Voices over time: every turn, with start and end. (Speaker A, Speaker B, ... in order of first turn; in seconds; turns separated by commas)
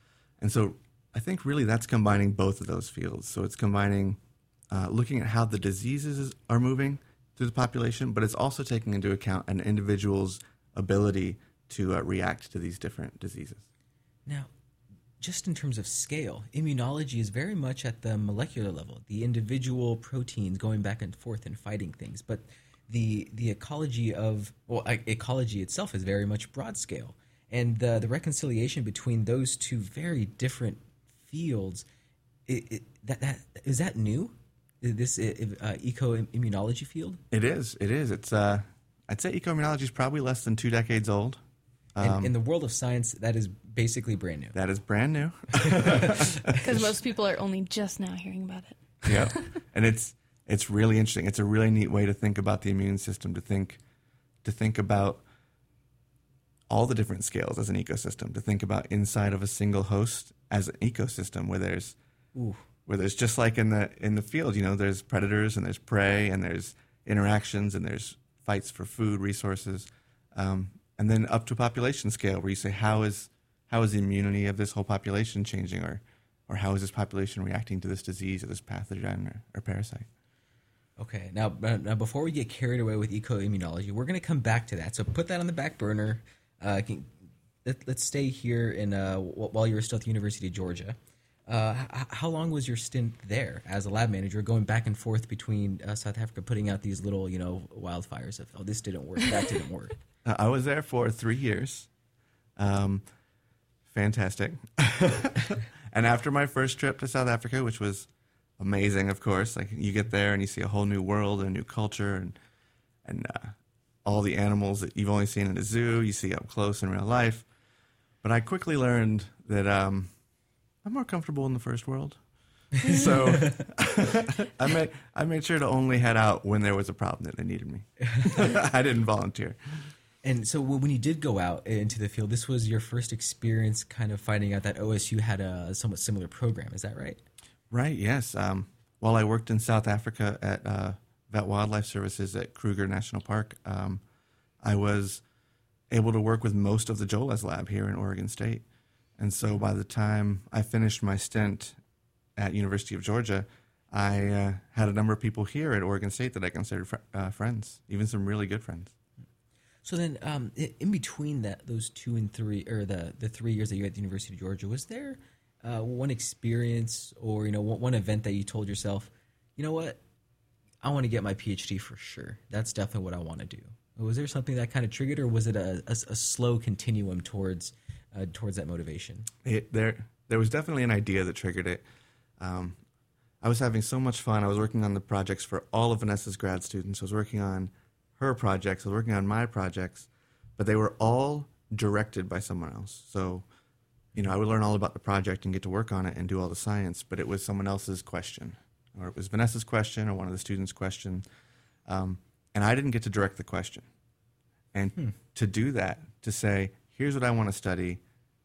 Speaker A: 0.4-4.2, Speaker A: 4.7-13.7, Speaker B: 15.2-31.9, Speaker B: 32.5-37.2, Speaker A: 37.3-41.4, Speaker A: 42.0-42.3, Speaker B: 42.0-44.6, Speaker A: 44.5-46.9, Speaker B: 45.6-46.8, Speaker C: 46.6-49.5, Speaker A: 49.0-53.8, Speaker A: 54.4-55.2, Speaker A: 56.7-62.0, Speaker B: 62.4-62.6, Speaker A: 62.9-80.1, Speaker B: 81.0-100.0, Speaker A: 100.2-101.9, Speaker A: 102.6-103.0, Speaker A: 103.9-108.1, Speaker A: 108.6-112.4, Speaker A: 113.0-117.5, Speaker A: 118.2-120.1, Speaker A: 120.8-122.2, Speaker A: 122.8-129.6, Speaker B: 122.9-123.7, Speaker B: 130.2-137.2, Speaker A: 137.7-144.0, Speaker A: 144.6-145.2, Speaker A: 145.9-148.7, Speaker A: 149.2-151.8, Speaker A: 152.4-158.9, Speaker B: 159.8-170.0, Speaker B: 170.8-179.3, Speaker A: 179.4-181.8, Speaker A: 182.4-182.8, Speaker A: 183.4-193.5, Speaker A: 194.2-201.2, Speaker A: 201.9-203.9, Speaker A: 204.7-208.0